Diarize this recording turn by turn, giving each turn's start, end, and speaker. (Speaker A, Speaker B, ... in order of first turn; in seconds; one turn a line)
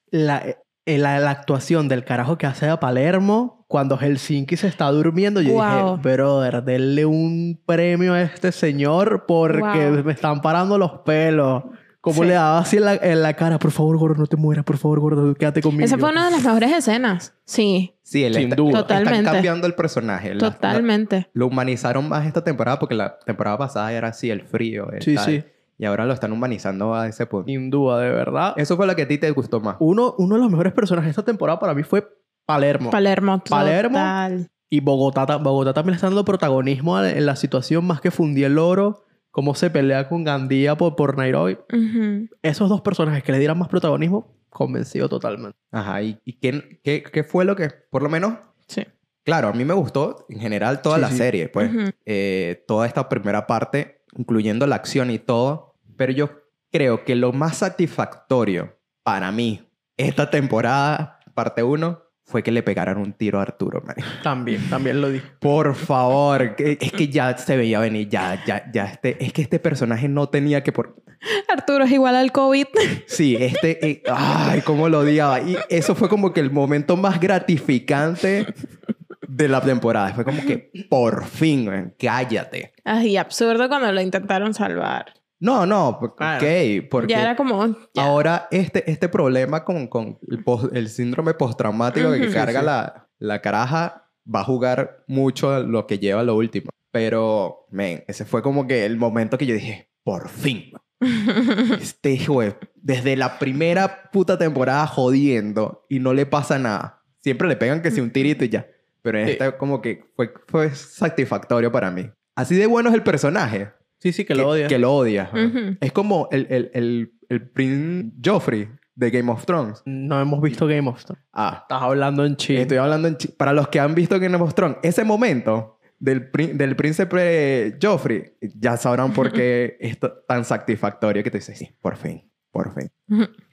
Speaker A: 0.1-16.4
Speaker B: 5.4-6.0
Speaker B: 9.5-10.0
Speaker B: 12.1-12.4
Speaker B: 15.8-17.9
Speaker C: 18.1-27.5
Speaker A: 18.3-18.9
Speaker B: 18.7-19.5
Speaker B: 20.4-21.2
Speaker A: 25.0-25.4
Speaker A: 27.5-28.6
Speaker C: 28.5-29.8
Speaker A: 29.8-33.0
Speaker B: 32.9-34.5
Speaker A: 33.5-34.1
Speaker A: 34.7-41.6
Speaker B: 41.7-42.3
Speaker A: 42.4-45.5
Speaker C: 45.7-48.4
Speaker C: 49.2-64.2
Speaker A: 50.9-51.3
Speaker B: 51.6-51.9
Speaker A: 64.2-65.3
Speaker C: 65.4-71.0
Speaker B: 71.2-73.1
Speaker C: 73.1-78.5
Speaker C: 79.2-82.7
Speaker B: 82.8-85.1
Speaker C: 85.4-87.3
Speaker A: 86.2-86.5
Speaker B: 87.0-88.1
Speaker C: 88.0-100.8
Speaker B: 91.9-92.4
Speaker A: 92.3-92.7
Speaker B: 101.1-101.7
Speaker C: 101.7-113.8
Speaker A: 114.0-114.8
Speaker C: 114.3-119.8
Speaker B: 115.3-115.8
Speaker A: 119.9-122.7
Speaker C: 121.3-121.6
Speaker C: 122.5-132.9